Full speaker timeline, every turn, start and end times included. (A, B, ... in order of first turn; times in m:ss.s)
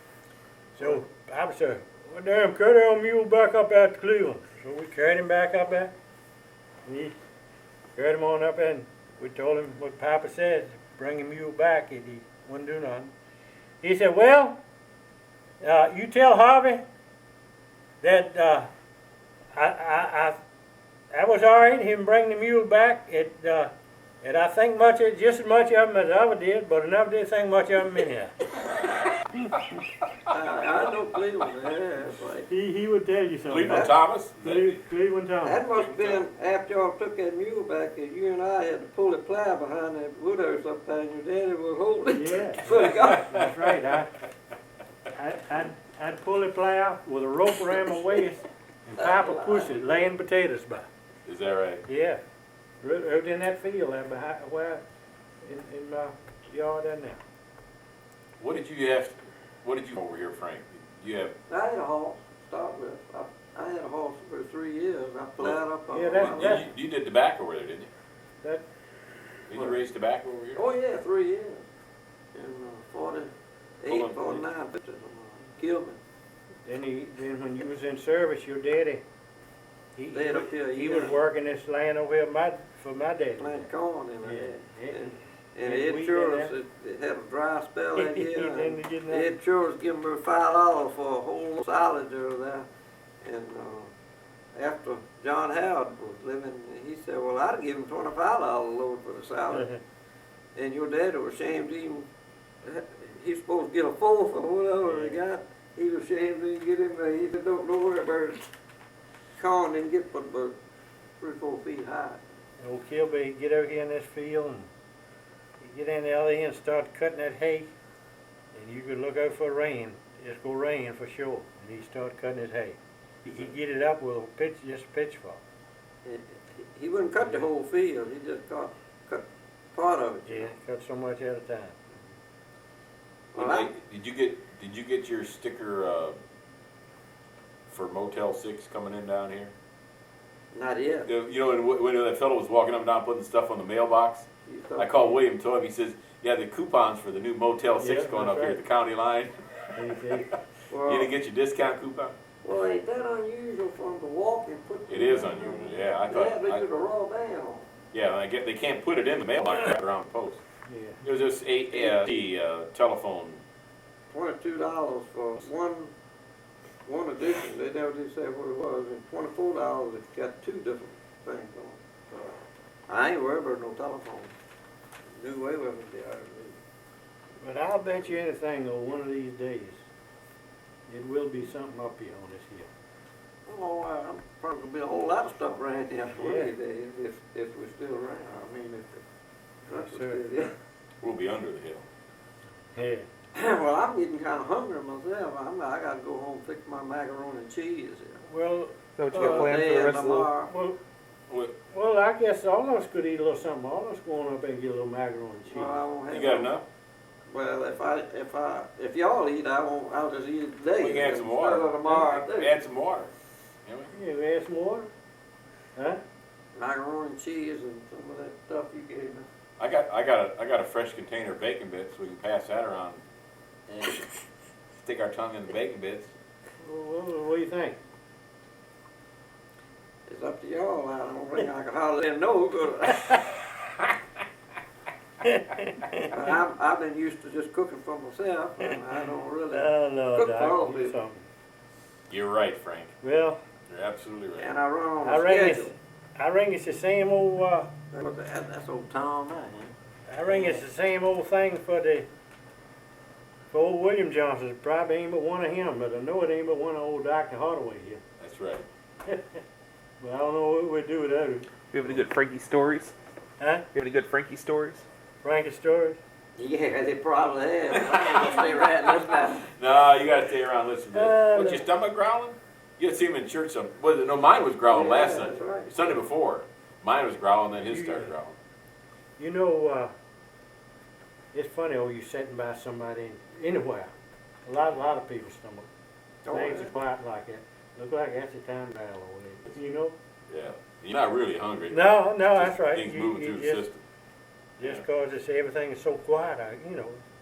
0:00.8-0:05.9 A
0:06.8-0:07.2 A
0:08.0-0:13.1 A
0:13.8-0:14.6 A
0:15.6-0:16.8 A
0:18.0-0:18.7 A
0:19.6-0:20.4 A
0:21.1-0:28.3 A
0:30.3-0:32.5 B
0:32.5-0:35.6 A
0:33.5-0:34.8 C
0:35.4-0:43.4 B
0:35.8-0:36.2 C
0:42.1-0:44.1 A
0:45.1-0:50.9 A
0:49.0-0:49.7 B
0:51.3-0:51.8 C
0:51.9-0:52.2 A
0:52.8-0:54.8 A
0:55.4-0:57.2 A
0:58.4-1:01.4 C
1:01.5-1:06.7 B
1:05.4-1:07.9 C
1:05.9-1:06.7 A
1:09.5-1:10.6 C
1:10.6-1:11.6 B
1:12.4-1:16.0 B
1:13.9-1:14.4 C
1:16.7-1:19.0 A
1:20.0-1:23.7 A
1:20.1-1:21.2 B
1:23.4-1:32.7 B
1:24.2-1:26.5 A
1:28.0-1:29.4 A
1:33.2-1:33.9 B
1:34.6-1:39.7 B
1:39.5-1:39.8 A
1:40.6-1:42.1 B
1:42.6-1:48.4 B
1:44.8-1:45.2 A
1:49.4-1:50.6 B
1:51.2-1:52.2 B
1:52.6-1:54.7 A
1:55.6-1:57.7 A
1:58.5-2:05.4 A
2:06.0-2:10.5 B
2:10.3-2:12.0 A
2:13.3-2:13.7 B
2:13.4-2:16.2 C
2:17.7-2:19.5 C
2:20.5-2:21.1 B
2:21.1-2:32.2 C
2:24.5-2:25.2 B
2:27.8-2:28.6 A
2:29.8-2:30.3 A
2:30.7-2:31.1 B
2:32.4-2:37.7 B
2:34.9-2:36.6 C
2:37.9-2:40.4 C
2:40.7-2:41.0 A
2:41.0-2:43.4 C
2:41.8-2:42.0 B
2:44.1-2:45.9 B
2:46.9-2:52.4 B
2:52.9-2:54.3 B
2:55.2-2:56.6 B
2:57.4-2:59.8 A
3:00.9-3:02.7 A
3:03.5-3:08.9 B
3:06.2-3:06.5 A
3:09.7-3:10.5 B
3:09.7-3:10.2 A
3:11.0-3:11.8 C
3:12.7-3:13.1 A
3:13.3-3:18.2 B
3:18.3-3:19.7 A
3:19.0-3:20.3 D
3:19.1-3:20.5 B
3:20.5-3:20.8 A
3:21.3-3:21.5 C
3:21.7-3:25.8 A
3:25.5-3:26.5 B
3:26.1-3:26.6 C
3:27.3-3:32.6 B
3:30.8-3:33.1 C
3:33.6-3:33.9 C
3:33.9-3:34.9 A
3:35.8-3:36.0 A
3:36.6-3:39.3 B
3:39.6-3:43.0 C
3:44.8-3:46.1 C
3:46.6-3:47.8 A
3:50.1-3:53.3 B
3:55.2-3:56.2 A
3:56.1-4:01.0 B
3:59.5-4:01.2 A
4:02.1-4:03.0 C
4:03.0-4:03.4 A
4:03.7-4:04.6 C
4:04.4-4:05.8 B
4:05.0-4:07.7 A
4:07.9-4:09.7 B
4:10.1-4:12.1 A
4:10.2-4:10.6 B
4:13.5-4:18.0 A
4:18.2-4:18.7 C
4:19.1-4:19.4 A
4:20.0-4:21.5 A
4:21.7-4:22.9 D
4:23.4-4:23.7 A
4:23.7-4:24.8 D
4:25.2-4:26.0 A
4:26.4-4:29.5 B
4:29.5-4:38.4 C
4:30.9-4:31.7 A
4:34.7-4:35.9 B
4:37.7-4:38.1 A
4:39.2-4:39.9 A
4:41.3-4:43.9 A
4:44.4-4:45.7 A
4:46.2-4:46.7 B
4:46.3-4:50.0 A
4:50.3-4:53.8 C
4:51.7-4:53.6 A
4:54.6-4:57.0 A
4:54.6-4:54.8 C